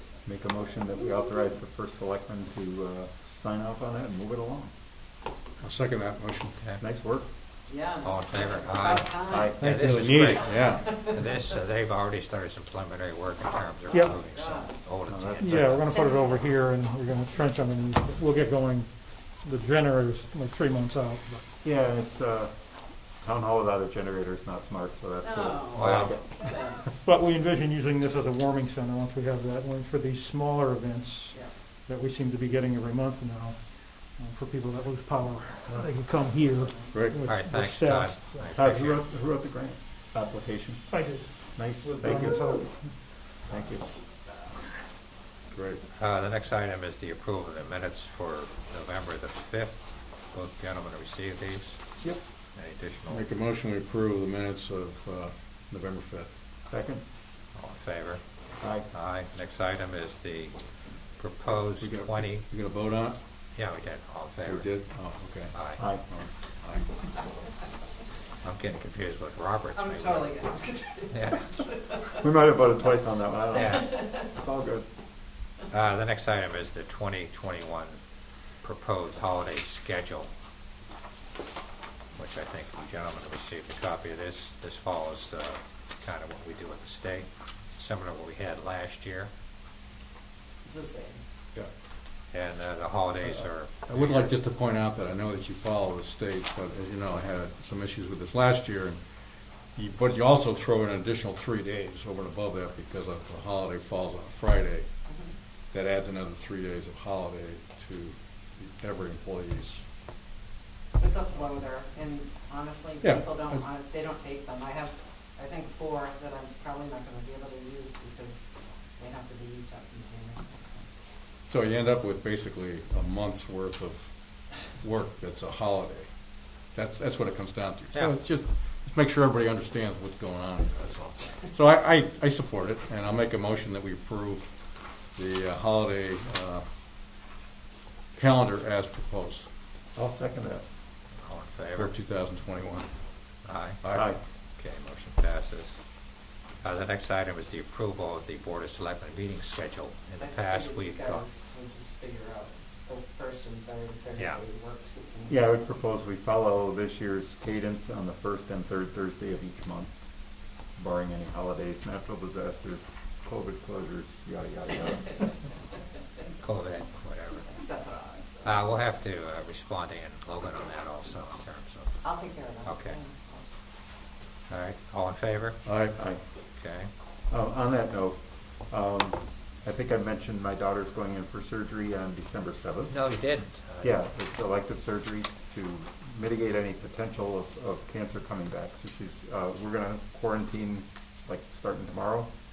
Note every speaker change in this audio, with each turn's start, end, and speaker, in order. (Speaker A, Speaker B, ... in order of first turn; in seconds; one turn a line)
Speaker A: 0.2-4.7
Speaker B: 5.7-6.5
Speaker A: 6.8-7.3
Speaker C: 7.7-11.2
Speaker D: 8.0-15.9
Speaker A: 9.3-9.9
Speaker B: 9.8-10.8
Speaker C: 14.0-14.7
Speaker A: 15.1-15.8
Speaker E: 15.4-21.4
Speaker C: 15.9-16.3
Speaker A: 21.6-22.6
Speaker A: 23.2-26.9
Speaker C: 25.2-26.8
Speaker D: 25.8-26.1
Speaker E: 27.0-38.6
Speaker C: 36.4-36.9
Speaker D: 37.2-39.0
Speaker A: 38.5-42.6
Speaker E: 40.9-43.0
Speaker A: 43.5-43.9
Speaker D: 46.0-51.9
Speaker D: 52.5-53.3
Speaker B: 53.2-56.3
Speaker A: 56.6-57.0
Speaker D: 57.5-58.2
Speaker A: 58.6-58.9
Speaker D: 58.9-60.6
Speaker D: 61.2-62.4
Speaker B: 61.9-63.1
Speaker D: 63.5-64.7
Speaker B: 64.6-65.5
Speaker D: 65.5-65.8
Speaker A: 65.8-66.0
Speaker B: 66.2-66.8
Speaker D: 68.4-70.4
Speaker C: 69.8-72.2
Speaker D: 71.1-71.6
Speaker A: 72.2-74.8
Speaker D: 73.5-73.9
Speaker D: 75.7-78.0
Speaker D: 78.6-80.3
Speaker D: 82.2-89.3
Speaker C: 90.6-91.2
Speaker D: 92.3-94.3
Speaker B: 94.2-99.0
Speaker B: 99.8-104.8
Speaker C: 105.1-105.3
Speaker B: 105.8-108.1
Speaker B: 108.8-109.8
Speaker C: 111.0-120.9
Speaker B: 121.5-123.9
Speaker B: 124.8-126.0
Speaker B: 126.8-128.4
Speaker B: 128.9-134.5
Speaker B: 135.2-136.6
Speaker B: 138.2-139.4
Speaker A: 140.0-140.6
Speaker D: 141.2-142.0
Speaker B: 141.8-142.9
Speaker D: 143.4-143.8
Speaker A: 143.9-144.2
Speaker D: 144.6-145.8
Speaker D: 146.6-151.2
Speaker C: 150.2-155.6
Speaker A: 155.3-159.9
Speaker A: 160.8-165.3
Speaker D: 166.4-167.5
Speaker C: 167.5-168.5
Speaker D: 168.4-172.0
Speaker C: 172.0-173.5
Speaker D: 172.6-173.0
Speaker D: 174.5-175.6
Speaker D: 176.6-176.9
Speaker A: 177.3-183.0
Speaker D: 182.9-184.0
Speaker A: 183.8-192.3